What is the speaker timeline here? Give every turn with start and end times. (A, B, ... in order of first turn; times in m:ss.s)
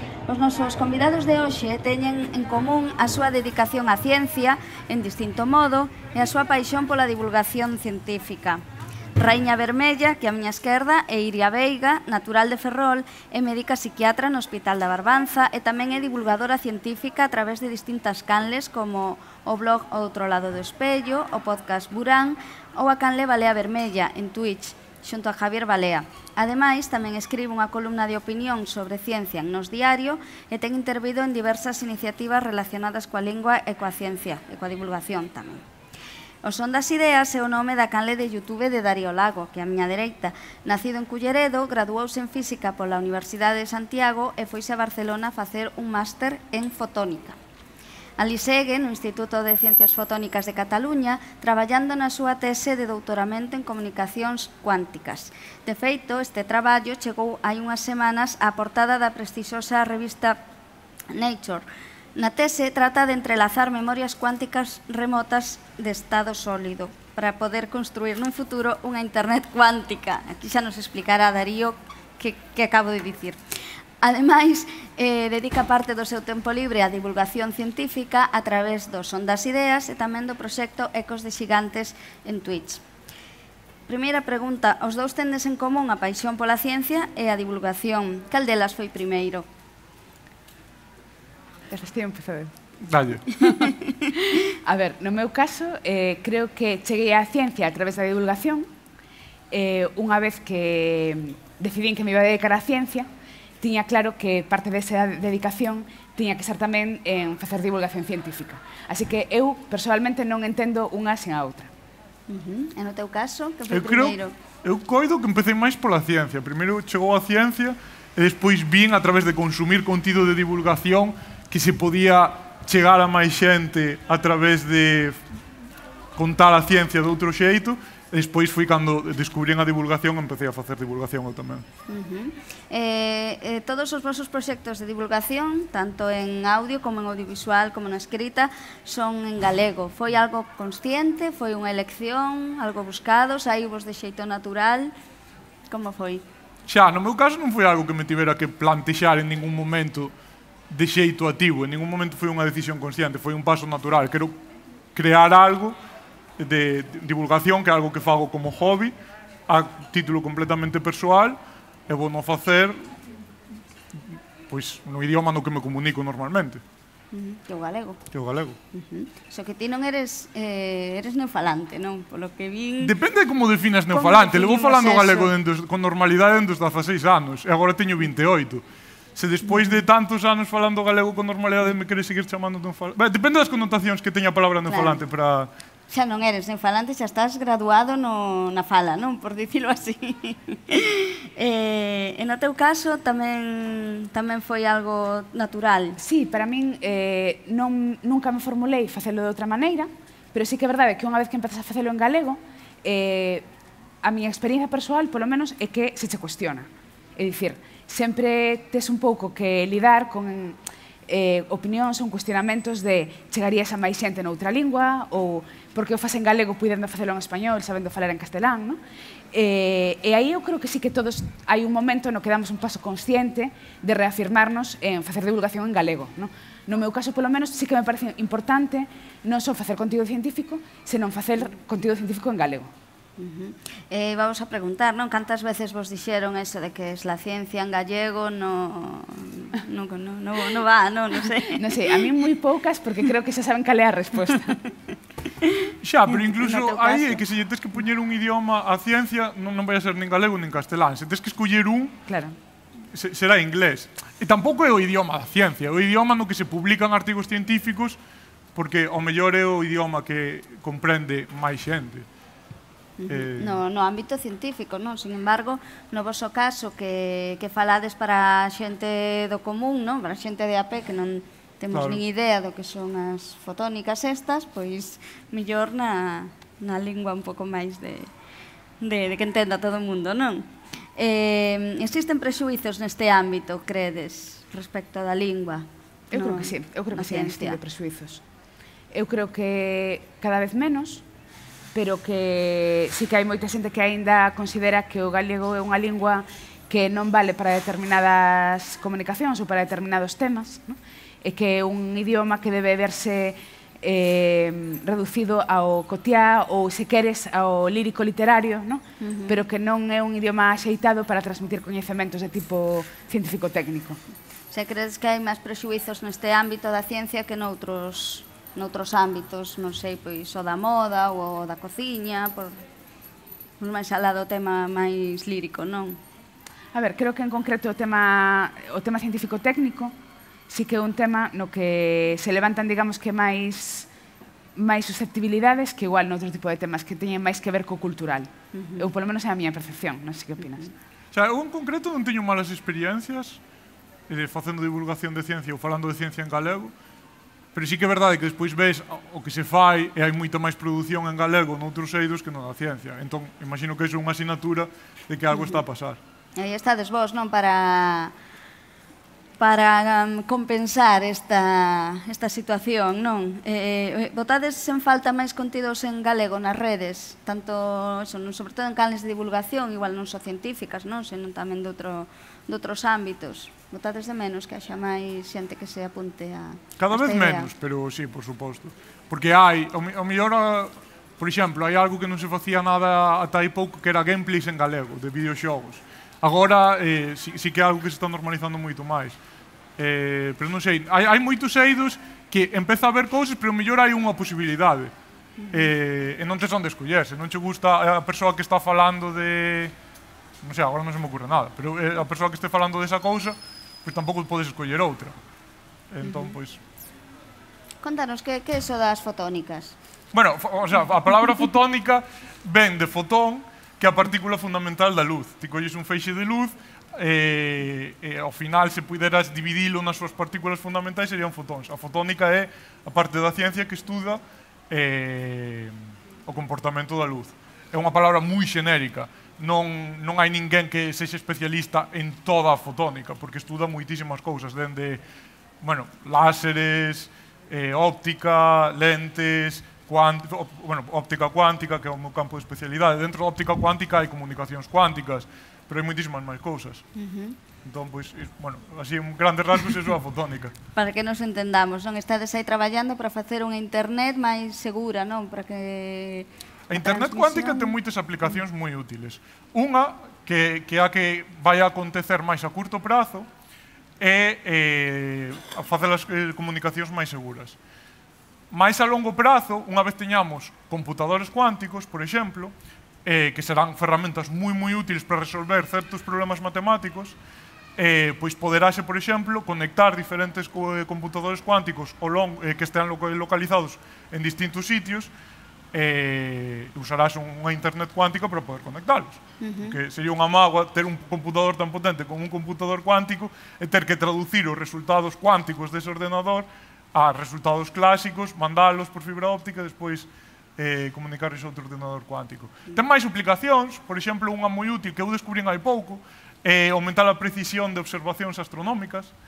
0:00.3-0:08.6 A
0:09.2-0:35.6 A
0:36.4-0:47.4 A
0:48.2-1:00.4 A
1:01.1-1:13.4 A
1:14.0-1:22.8 A
1:23.9-1:29.4 A
1:31.7-1:32.5 B
1:32.8-1:33.5 C
1:34.5-1:38.7 B
1:39.5-1:43.1 B
1:43.6-1:51.7 B
1:52.3-1:54.4 A
1:53.7-2:05.2 C
2:06.2-2:11.6 C
2:11.9-2:24.9 A
2:25.7-2:26.2 A
2:26.6-2:30.1 C
2:30.7-2:34.4 C
2:34.9-2:35.8 C
2:36.4-2:38.9 C
2:39.5-2:41.4 C
2:41.9-2:42.9 C
2:43.9-2:46.6 C
2:47.1-2:48.0 A
2:48.1-2:48.6 C
2:48.7-2:52.9 A
2:52.8-2:58.6 C
2:53.9-2:55.3 A
2:59.2-3:05.5 C
2:59.4-2:59.8 A
3:04.7-3:05.0 A
3:05.9-3:16.0 A
3:16.0-3:23.4 B
3:24.0-3:38.8 B
3:39.3-3:52.7 B
3:53.2-4:02.0 A
4:01.4-4:04.6 B
4:05.4-4:07.2 A
4:05.8-4:12.0 C
4:12.1-4:12.4 B
4:12.9-4:18.0 C
4:18.5-4:22.1 C
4:23.0-4:38.1 A
4:23.1-4:23.6 C
4:31.7-4:32.0 C
4:38.8-4:47.6 A
4:46.1-4:48.2 B
4:48.9-4:51.0 B
4:51.7-5:14.0 B
5:09.0-5:09.4 A
5:14.5-5:22.6 A
5:23.6-5:26.0 A
5:26.7-5:29.9 B
5:30.5-5:33.9 B
5:34.6-5:40.7 B
5:38.5-5:38.9 A
5:41.1-5:43.4 C
5:44.1-5:46.7 C
5:47.5-5:56.0 C
5:55.3-5:55.6 A
5:56.4-5:58.1 A
5:59.4-6:17.5 A
6:16.8-6:29.2 C
6:29.8-6:34.9 C
6:35.4-6:35.7 A
6:35.5-6:39.7 C
6:40.4-6:45.2 C
6:45.9-6:46.6 C
6:46.0-6:46.4 A
6:47.8-6:49.8 A
6:50.1-7:15.0 C
7:15.6-7:26.8 C
7:26.9-7:27.4 A
7:27.6-7:30.5 C
7:30.8-7:37.7 A
7:36.7-7:43.3 C
7:44.0-7:47.6 C
7:48.5-7:52.5 C
7:53.0-7:57.2 C
7:57.8-8:05.1 C
8:05.7-8:29.1 C
8:09.4-8:09.8 A